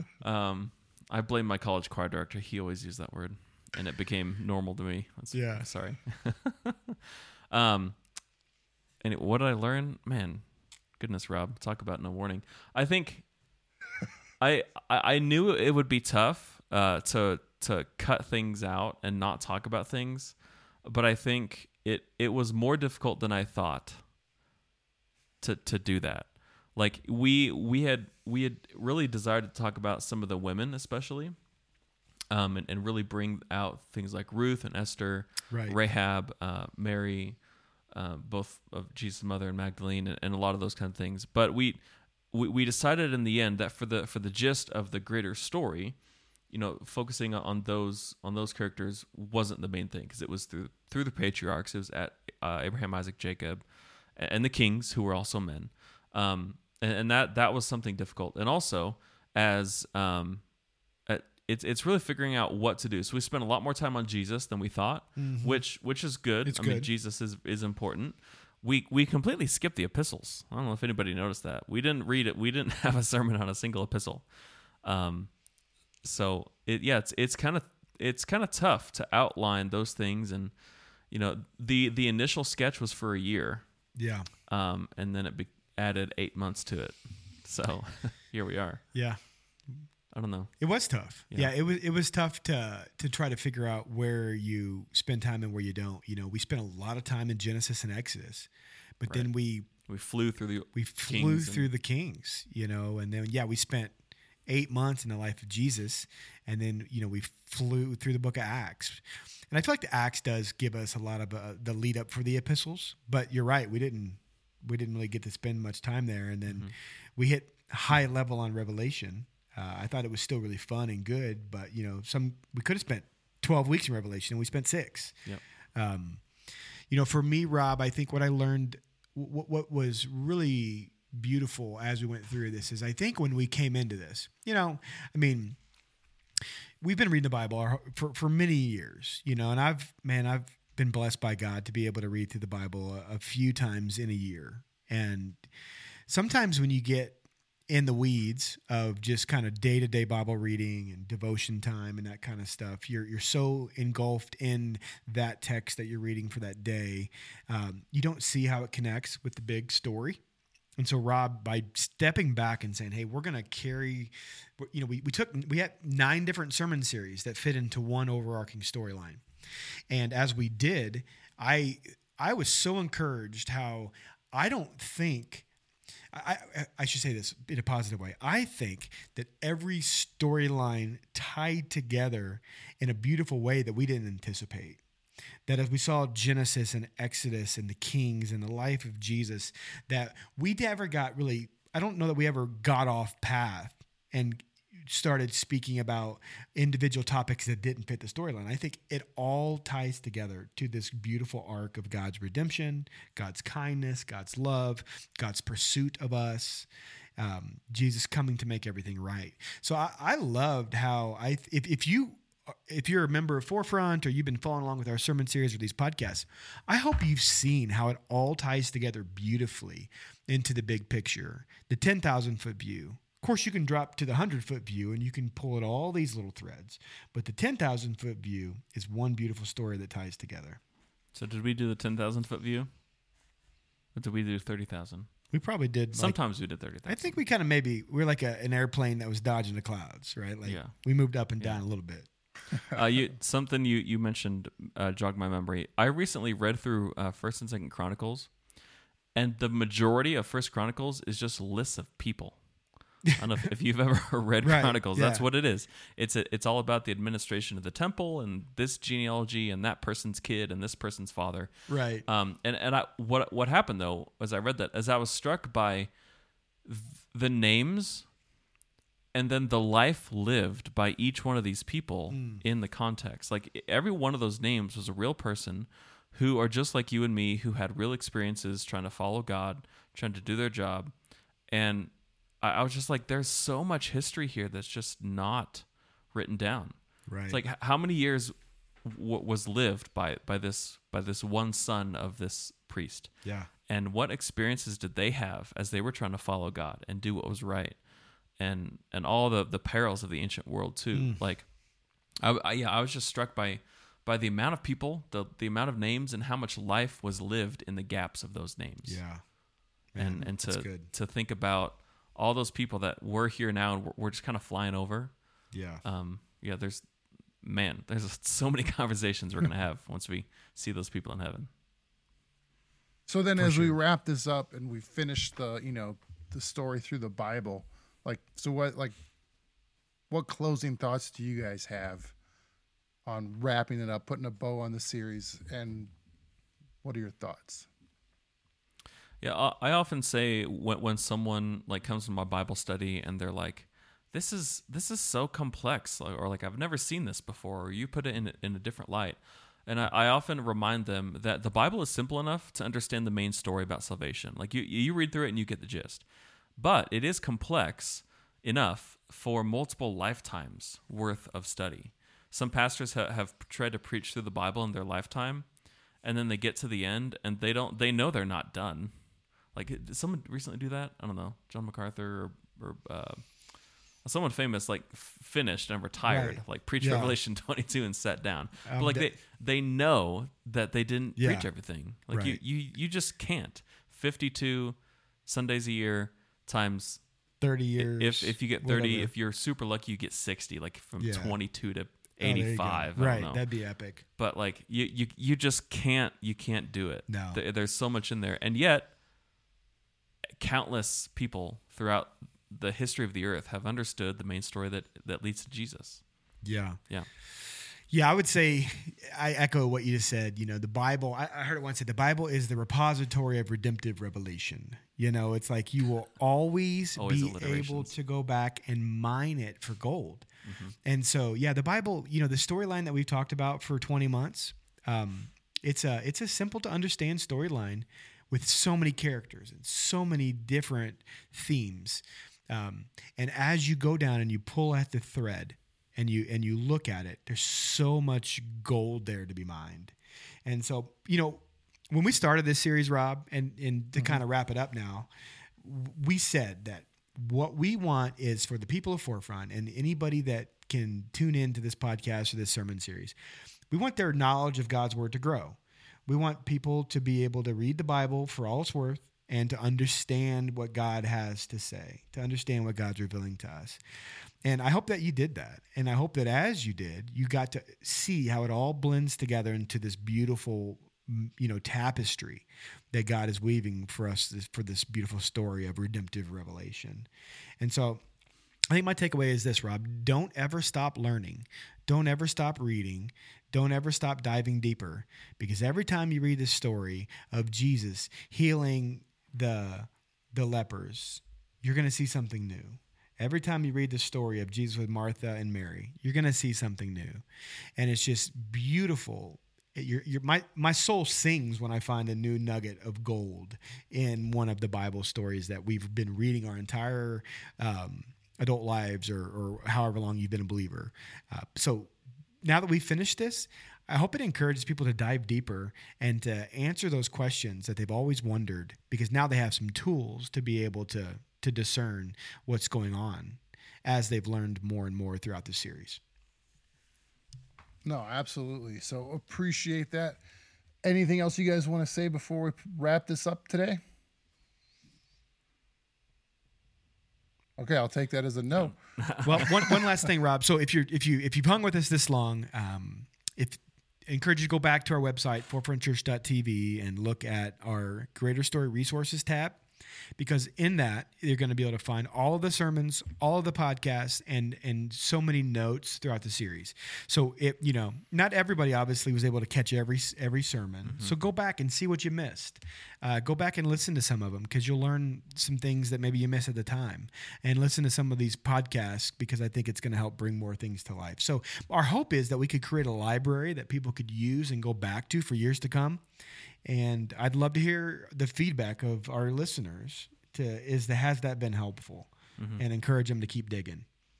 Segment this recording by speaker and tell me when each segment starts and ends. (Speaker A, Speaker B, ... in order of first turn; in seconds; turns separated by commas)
Speaker A: 0.2-8.1, Speaker B: 5.3-5.7, Speaker A: 9.0-13.3, Speaker A: 14.4-24.0, Speaker A: 25.4-31.4, Speaker A: 32.3-60.5, Speaker B: 35.5-35.8, Speaker A: 61.1-74.3, Speaker B: 65.2-65.6, Speaker B: 66.5-66.9, Speaker A: 74.8-75.3, Speaker A: 76.0-83.7, Speaker B: 84.0-84.3, Speaker A: 84.5-88.8, Speaker B: 88.9-89.8, Speaker A: 90.1-90.6, Speaker B: 90.6-99.7, Speaker A: 99.9-101.7, Speaker B: 100.7-104.0, Speaker B: 104.5-125.2, Speaker A: 116.5-116.7, Speaker B: 125.8-126.2, Speaker B: 126.9-135.6, Speaker B: 136.8-145.4, Speaker B: 146.1-160.2, Speaker B: 160.8-169.2, Speaker B: 169.9-175.5, Speaker B: 176.1-184.8, Speaker B: 185.5-230.6, Speaker A: 231.1-232.7, Speaker A: 233.9-235.1, Speaker B: 235.3-242.1, Speaker A: 235.9-237.2, Speaker A: 240.4-240.8, Speaker A: 242.7-248.4, Speaker A: 249.2-252.4, Speaker A: 253.1-265.9, Speaker B: 254.4-255.3, Speaker B: 261.7-262.1, Speaker A: 266.6-268.1, Speaker A: 269.1-280.9, Speaker B: 272.1-272.4, Speaker A: 281.5-293.1, Speaker B: 287.1-287.4, Speaker B: 293.2-293.5, Speaker A: 293.7-297.8, Speaker A: 298.4-301.5, Speaker B: 300.9-301.2, Speaker A: 302.2-309.0, Speaker B: 308.9-309.2, Speaker B: 309.9-310.9, Speaker A: 310.0-315.2, Speaker B: 315.5-315.8, Speaker A: 315.8-321.5, Speaker C: 323.1-329.0, Speaker B: 323.4-323.8, Speaker C: 330.1-332.1, Speaker C: 333.1-335.9, Speaker C: 336.8-337.7, Speaker A: 339.2-356.1, Speaker A: 356.6-365.5, Speaker A: 366.0-368.9, Speaker A: 369.5-373.5, Speaker A: 374.0-387.0, Speaker B: 376.1-377.1, Speaker B: 378.6-379.1, Speaker B: 381.2-381.5, Speaker B: 382.1-382.4, Speaker B: 387.4-389.1, Speaker A: 387.8-393.4, Speaker B: 391.0-391.4, Speaker B: 392.2-394.0, Speaker A: 394.2-398.9, Speaker B: 397.1-397.4, Speaker A: 400.4-406.0, Speaker B: 406.4-406.8, Speaker B: 407.9-420.3, Speaker A: 417.0-417.9, Speaker A: 420.4-420.8, Speaker B: 420.8-445.1, Speaker B: 445.6-453.2, Speaker B: 453.7-463.8, Speaker B: 464.4-477.1, Speaker B: 477.6-478.0, Speaker B: 478.7-497.2, Speaker B: 497.8-526.0, Speaker C: 527.8-530.2, Speaker C: 530.8-533.8, Speaker C: 537.6-538.8, Speaker A: 538.6-539.9, Speaker B: 539.2-549.6, Speaker B: 550.2-576.0, Speaker A: 560.9-561.1, Speaker B: 576.6-583.9, Speaker A: 582.4-582.6